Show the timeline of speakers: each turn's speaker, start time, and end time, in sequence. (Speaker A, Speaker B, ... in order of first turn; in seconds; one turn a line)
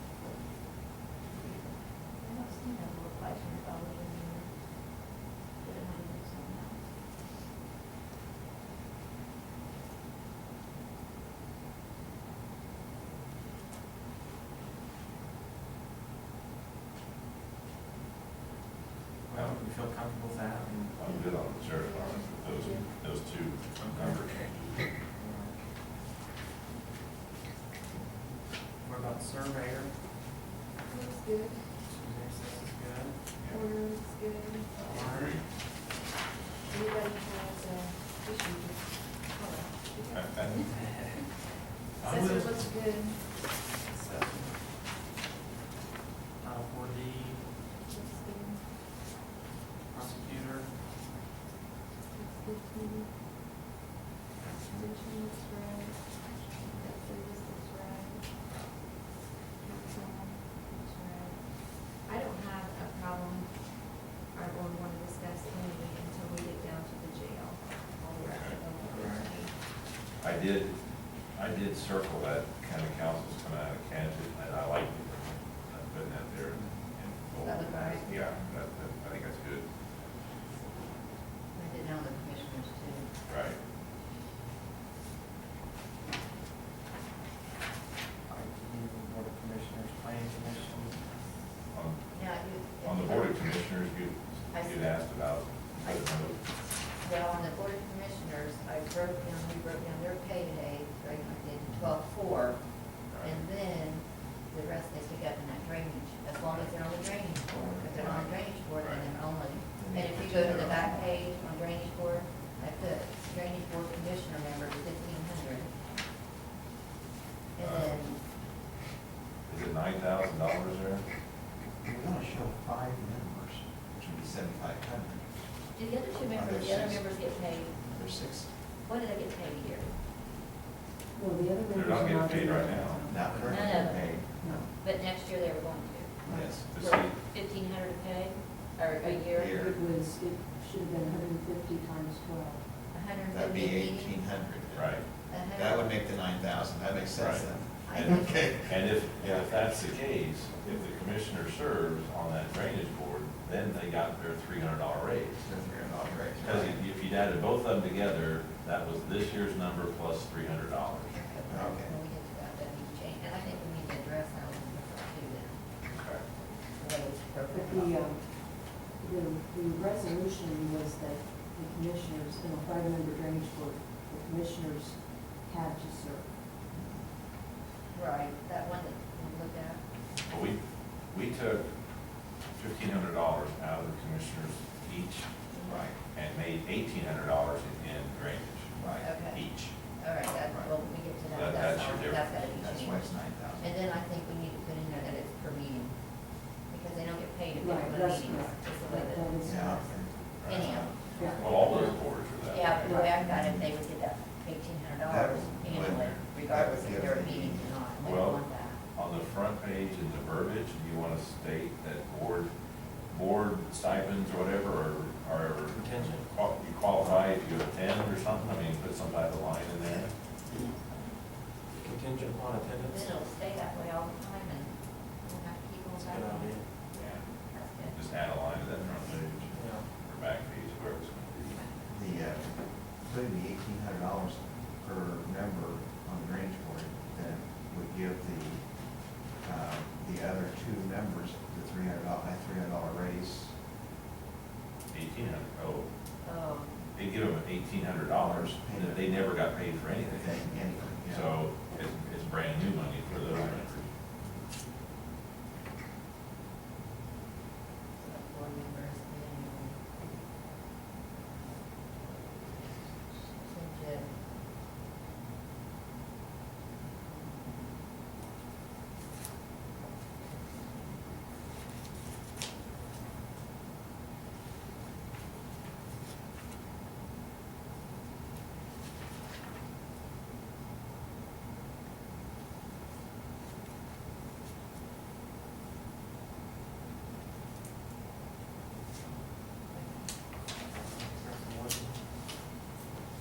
Speaker A: 2.2-4.6
Speaker A: 5.6-6.9
Speaker B: 19.3-20.9
Speaker C: 20.9-24.8
Speaker A: 22.0-22.9
Speaker B: 25.1-25.6
Speaker B: 28.8-29.9
Speaker A: 30.8-31.8
Speaker B: 31.9-33.2
Speaker C: 33.4-33.7
Speaker A: 33.5-35.0
Speaker C: 34.8-35.4
Speaker B: 34.8-35.3
Speaker A: 36.7-41.3
Speaker C: 40.1-40.7
Speaker A: 42.0-43.6
Speaker B: 42.0-42.6
Speaker B: 46.4-47.5
Speaker A: 47.8-48.6
Speaker B: 49.9-50.7
Speaker A: 52.1-53.1
Speaker A: 54.5-58.3
Speaker A: 59.6-69.5
Speaker C: 68.2-68.6
Speaker B: 68.9-69.3
Speaker C: 70.2-70.8
Speaker C: 71.3-79.6
Speaker D: 77.4-78.3
Speaker D: 81.5-83.1
Speaker C: 83.3-83.6
Speaker B: 88.3-91.0
Speaker C: 91.7-92.0
Speaker D: 92.1-93.6
Speaker C: 92.8-96.4
Speaker D: 94.5-95.1
Speaker D: 95.8-96.2
Speaker D: 96.9-115.7
Speaker C: 103.1-103.5
Speaker E: 107.5-108.4
Speaker C: 108.8-109.1
Speaker E: 109.8-111.1
Speaker D: 117.5-118.2
Speaker C: 117.6-118.0
Speaker C: 119.5-121.0
Speaker E: 121.8-125.5
Speaker D: 125.8-127.9
Speaker E: 126.2-127.1
Speaker E: 127.8-128.5
Speaker D: 128.6-130.0
Speaker F: 131.1-134.7
Speaker C: 131.7-133.2
Speaker E: 133.1-134.7
Speaker D: 133.4-136.2
Speaker E: 136.2-136.7
Speaker F: 136.2-136.7
Speaker C: 136.7-137.2
Speaker D: 136.8-139.8
Speaker F: 139.0-142.7
Speaker E: 139.3-139.7
Speaker D: 142.9-144.3
Speaker E: 143.3-149.7
Speaker C: 144.7-145.1
Speaker D: 145.3-146.1
Speaker C: 147.1-155.4
Speaker D: 147.8-148.6
Speaker E: 155.4-156.8
Speaker C: 156.4-161.1
Speaker D: 161.1-165.6
Speaker E: 161.5-162.0
Speaker C: 165.9-166.3
Speaker D: 166.5-168.0
Speaker F: 167.5-176.4
Speaker E: 176.7-177.1
Speaker D: 177.9-179.8
Speaker C: 180.3-181.7
Speaker C: 182.5-185.3
Speaker D: 185.5-185.8
Speaker E: 185.6-186.0
Speaker C: 186.1-189.7
Speaker E: 188.7-189.1
Speaker D: 189.0-201.9
Speaker E: 190.5-190.8
Speaker C: 191.3-192.5
Speaker E: 192.5-193.8
Speaker F: 197.6-199.9
Speaker E: 199.4-201.1
Speaker C: 200.4-200.8
Speaker F: 201.1-201.4
Speaker B: 201.3-201.9
Speaker C: 201.4-203.0
Speaker D: 202.4-208.8
Speaker F: 202.8-203.6
Speaker E: 203.3-203.6
Speaker E: 205.0-207.8
Speaker C: 208.0-212.5
Speaker C: 213.1-220.1
Speaker B: 215.7-216.3
Speaker D: 220.5-221.0
Speaker B: 221.7-223.1
Speaker D: 222.9-226.6
Speaker B: 226.0-226.7
Speaker C: 226.9-227.3
Speaker D: 227.3-228.0
Speaker C: 227.9-231.6
Speaker B: 229.5-229.9
Speaker D: 231.5-231.8
Speaker E: 231.9-243.5
Speaker C: 244.9-245.9
Speaker D: 246.2-246.9
Speaker C: 246.9-253.9
Speaker E: 248.1-249.5
Speaker E: 250.1-251.3
Speaker E: 253.2-253.6
Speaker D: 258.0-259.8
Speaker D: 263.3-264.2
Speaker D: 267.1-267.7
Speaker B: 290.7-292.0